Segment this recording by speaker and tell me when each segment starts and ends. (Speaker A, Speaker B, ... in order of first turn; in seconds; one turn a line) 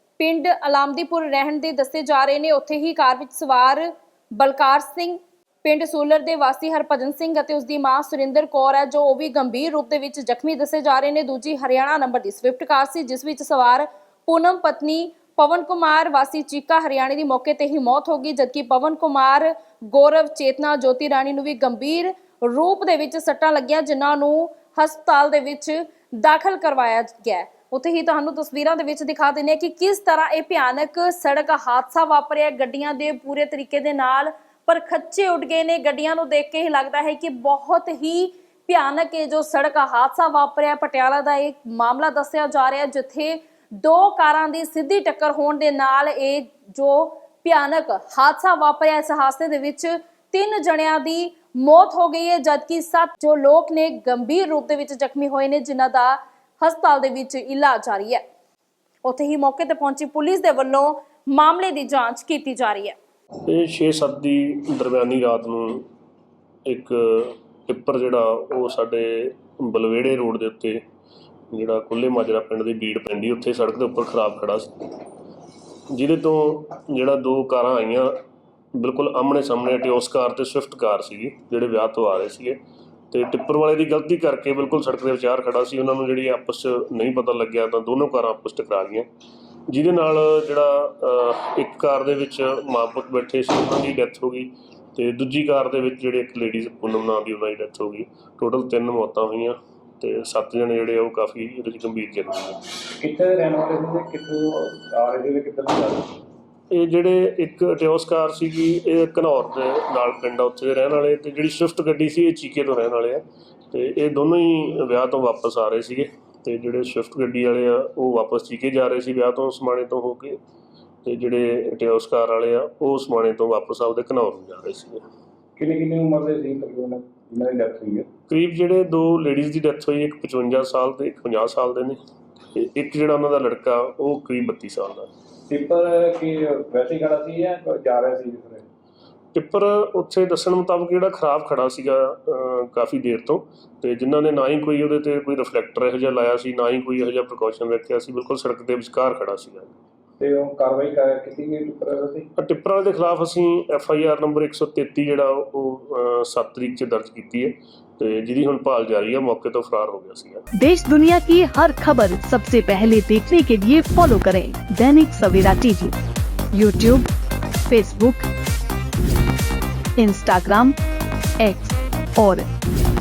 Speaker A: 0.2-58.2
Speaker A: 59.0-63.0
Speaker B: 63.5-65.8
Speaker B: 66.7-70.8
Speaker B: 71.5-74.7
Speaker B: 75.9-78.1
Speaker B: 78.8-82.6
Speaker B: 83.1-89.1
Speaker B: 89.7-102.6
Speaker C: 103.0-106.1
Speaker B: 106.7-120.4
Speaker B: 121.0-125.0
Speaker C: 125.6-128.1
Speaker B: 128.3-132.0
Speaker B: 132.5-135.1
Speaker C: 135.5-138.7
Speaker B: 139.3-149.7
Speaker C: 150.2-152.2
Speaker B: 152.4-160.4
Speaker D: 160.5-165.9
Speaker D: 166.5-167.1
Speaker D: 167.7-168.3
Speaker D: 170.0-170.8
Speaker D: 171.4-172.4